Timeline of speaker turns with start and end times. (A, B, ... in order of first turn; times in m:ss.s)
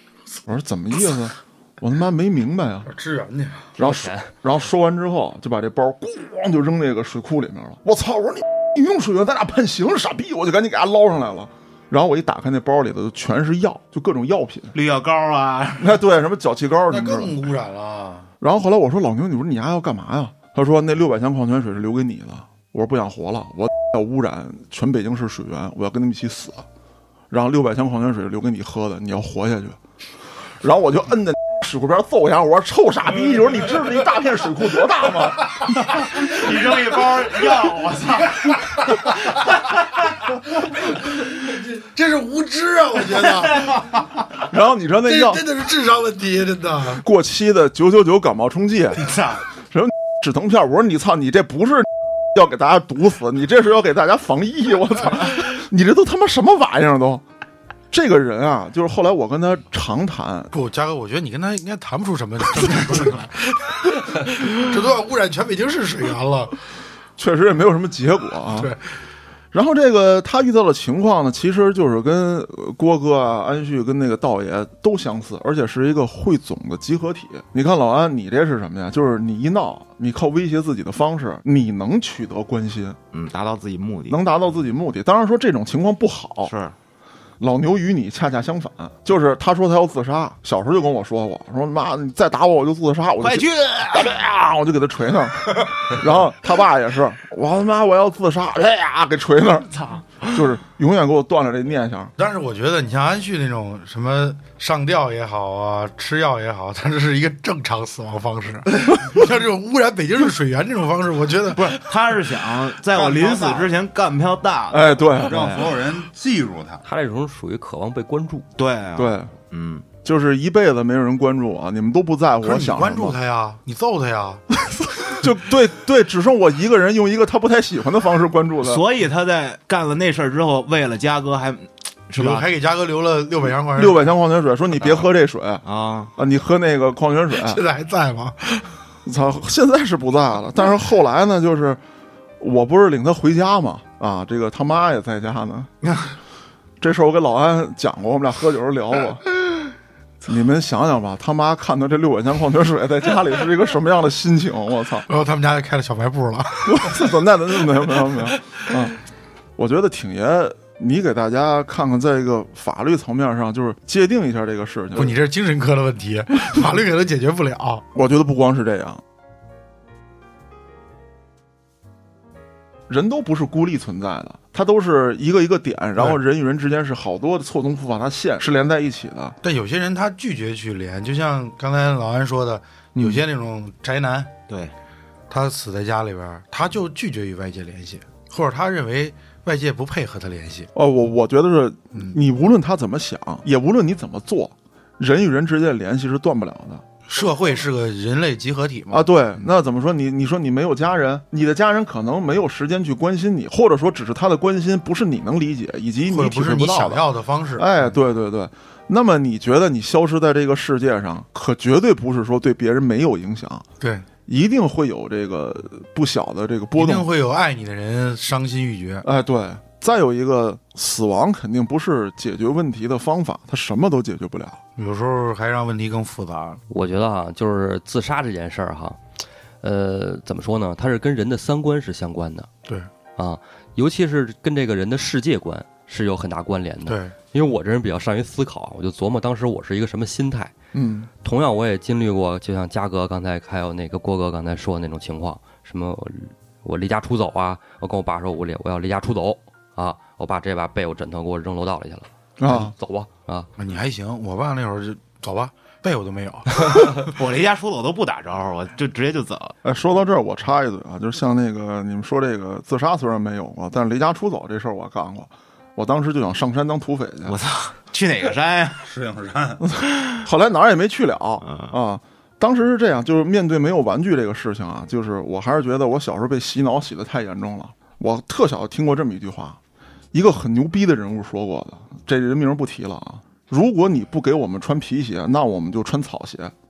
0:00.4-0:02.9 A
0:02.8-0:03.7 B
0:03.8-0:14.7 A
0:03.8-0:04.3 C
0:14.7-0:16.0 D
0:15.8-0:17.4 A
0:16.9-0:18.3 B
0:18.4-0:26.6 A
0:27.3-0:29.8 A
0:30.6-0:36.1 A
0:36.1-0:40.0 D
0:38.9-0:39.3 B
0:40.8-0:43.8 B
0:43.6-0:43.8 D
0:44.5-0:45.4 A
0:45.0-0:47.0 B
0:46.9-0:49.2 A
0:49.0-0:49.4 D
0:49.7-0:57.2 A
0:57.9-1:00.5 A
1:00.5-1:06.6 B
1:07.2-1:08.7 A
1:08.6-1:08.9 B
1:09.5-1:23.0 A
1:23.1-1:24.2 D
1:24.1-1:26.5 A
1:26.4-1:26.7 D
1:27.4-1:42.1 A
1:33.2-1:34.2 D
1:39.7-1:40.4 D
1:42.2-1:51.8 B
1:51.5-1:55.8 D
1:52.9-1:53.7 E
1:54.7-1:55.6 A
1:55.2-1:56.8 E
1:56.8-1:58.5 C
1:58.6-1:59.8 D
1:59.0-1:59.3 A
2:00.0-2:03.2 A
2:02.4-2:04.4 B
2:05.1-2:08.8 A
2:08.6-2:12.5 D
2:12.2-2:14.1 B
2:13.8-2:15.6 A
2:14.8-2:15.1 D
2:15.6-2:16.1 D
2:16.2-2:17.6 A
2:17.4-2:18.8 B
2:19.0-2:21.8 A
2:22.4-2:25.7 A
2:25.8-2:26.1 D
2:26.8-2:29.3 A
2:30.2-2:35.1 A
2:35.1-2:37.1 B
2:36.6-2:39.0 A
2:39.6-2:45.2 A
2:44.9-2:47.8 B
2:47.9-2:49.0 A
2:52.9-2:59.4 A
2:59.4-3:04.3 B
3:03.0-3:03.2 A
3:04.5-3:04.7 D
3:05.3-3:10.7 B
3:10.7-3:16.8 A
3:17.1-3:19.1 B
3:18.9-3:33.6 A
3:26.1-3:27.6 B
3:33.8-3:34.1 B
3:34.2-3:37.1 A
3:36.7-3:39.0 B
3:39.0-3:44.6 A
3:44.8-3:46.6 B
3:46.7-3:49.0 C
3:49.6-3:52.5 C
3:53.2-4:00.5 C
3:56.8-3:57.1 B
4:00.7-4:01.1 A
4:01.2-4:13.5 C
4:12.4-4:12.7 A
4:13.6-4:17.1 B
4:16.6-4:19.5 D
4:19.6-4:27.4 A
4:27.2-4:28.9 D
4:28.8-4:29.6 E
4:29.6-4:39.6 A
4:31.4-4:31.7 D
4:40.1-4:46.5 A